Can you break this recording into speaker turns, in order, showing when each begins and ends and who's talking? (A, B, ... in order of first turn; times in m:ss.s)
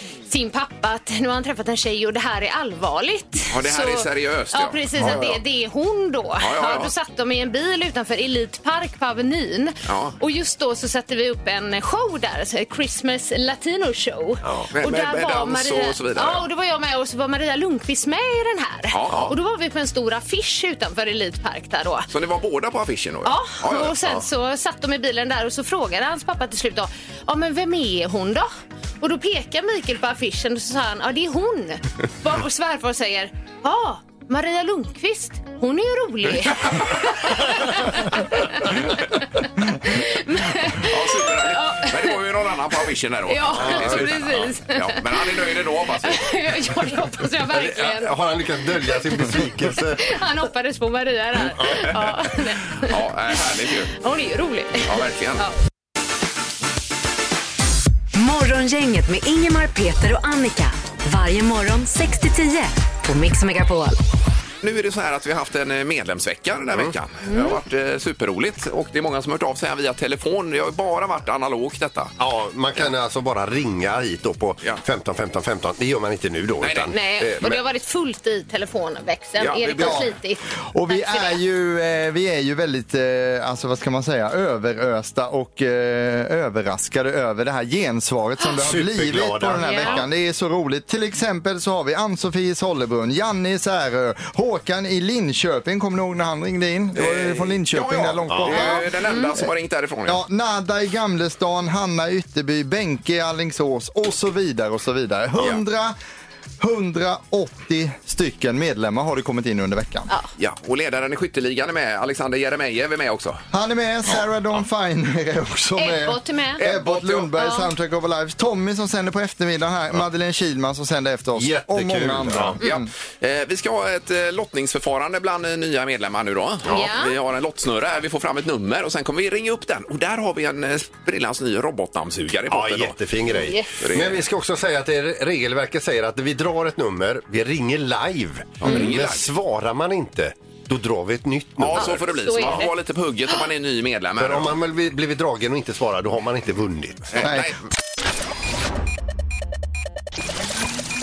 0:00.3-0:22.1 A
0:03.5-0:05.4 B
0:06.4-0:06.9 B
0:09.8-0:10.2 B
0:14.4-0:14.7 C
0:14.7-0:16.5 B
0:18.9-0:19.3 B
0:19.1-0:19.3 C
0:22.1-0:24.0 B
0:23.2-0:28.5 A
0:29.0-0:42.2 A
0:40.7-0:46.3 B
0:43.3-0:45.0 A
0:43.5-0:44.5 C
0:46.0-0:48.1 A
0:47.5-0:50.0 C
0:50.0-0:52.9 A
0:51.4-0:52.1 C
0:52.8-0:53.9 B
0:54.0-0:55.5 A
0:54.8-0:55.4 B
0:58.1-1:04.0 D
1:04.6-1:12.1 B
1:07.2-1:07.6 A
1:12.2-1:17.6 C
1:16.6-1:16.9 B
1:16.9-1:21.4 A
1:19.4-1:20.0 B
1:19.8-1:20.1 E
1:20.7-1:39.5 E
1:28.6-1:30.0 C
1:29.6-1:30.0 A
1:36.9-1:40.2 B
1:38.3-1:38.7 C
1:40.0-1:45.9 E
1:46.6-1:50.1 E
1:50.4-1:53.4 B
1:53.5-2:02.9 E
1:55.8-1:56.6 A
1:56.6-1:57.3 B
1:57.4-1:57.7 A
2:01.4-2:02.6 C
2:02.6-2:14.2 B
2:06.7-2:07.1 A
2:12.5-2:22.7 C
2:13.3-2:13.7 A
2:18.6-2:19.3 B
2:21.6-2:24.6 B
2:21.7-2:22.7 A
2:24.2-2:27.2 C
2:27.1-2:27.6 B
2:27.2-2:27.5 E